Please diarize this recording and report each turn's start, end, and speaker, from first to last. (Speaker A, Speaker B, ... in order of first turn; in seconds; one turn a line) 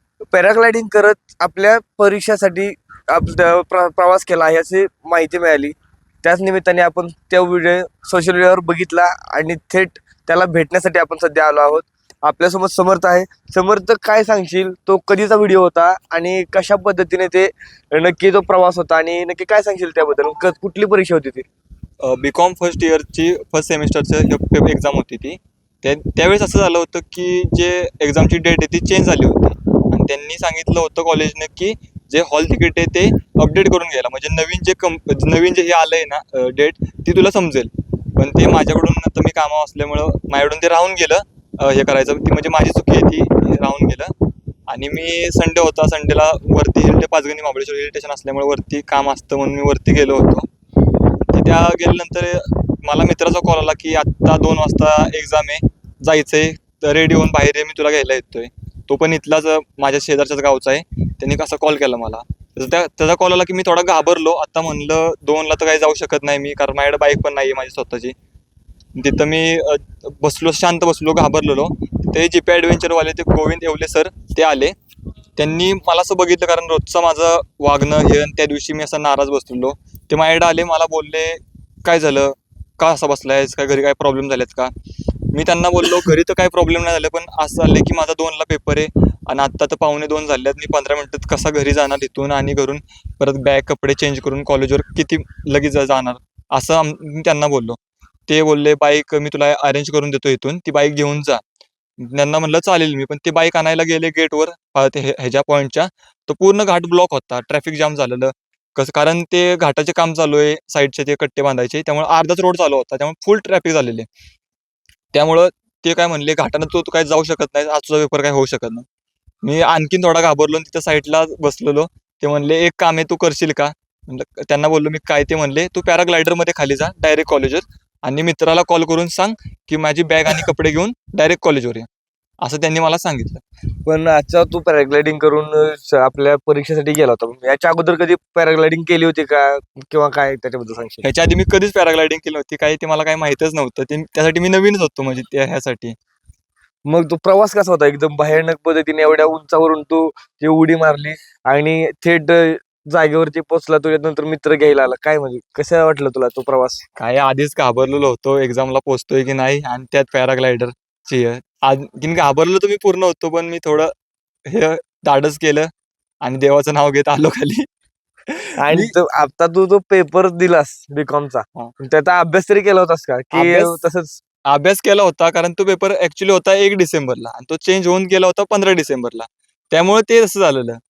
Speaker A: 0.3-21.4
Speaker B: 22.0-44.1
Speaker B: 44.7-50.5
Speaker B: 51.3-68.2
Speaker B: 69.0-74.8
Speaker B: 75.4-84.7
Speaker B: 85.3-101.4
Speaker B: 102.0-114.1
Speaker B: 115.1-118.9
Speaker B: 119.4-131.9
Speaker B: 132.4-133.4
Speaker A: 133.8-141.1
Speaker B: 141.0-146.0
Speaker A: 146.9-156.8
Speaker B: 157.0-163.9
Speaker B: 164.5-165.7
Speaker B: 166.2-167.7
Speaker B: 168.3-168.9
Speaker A: 168.6-174.2
Speaker B: 173.3-173.8
Speaker B: 174.5-180.8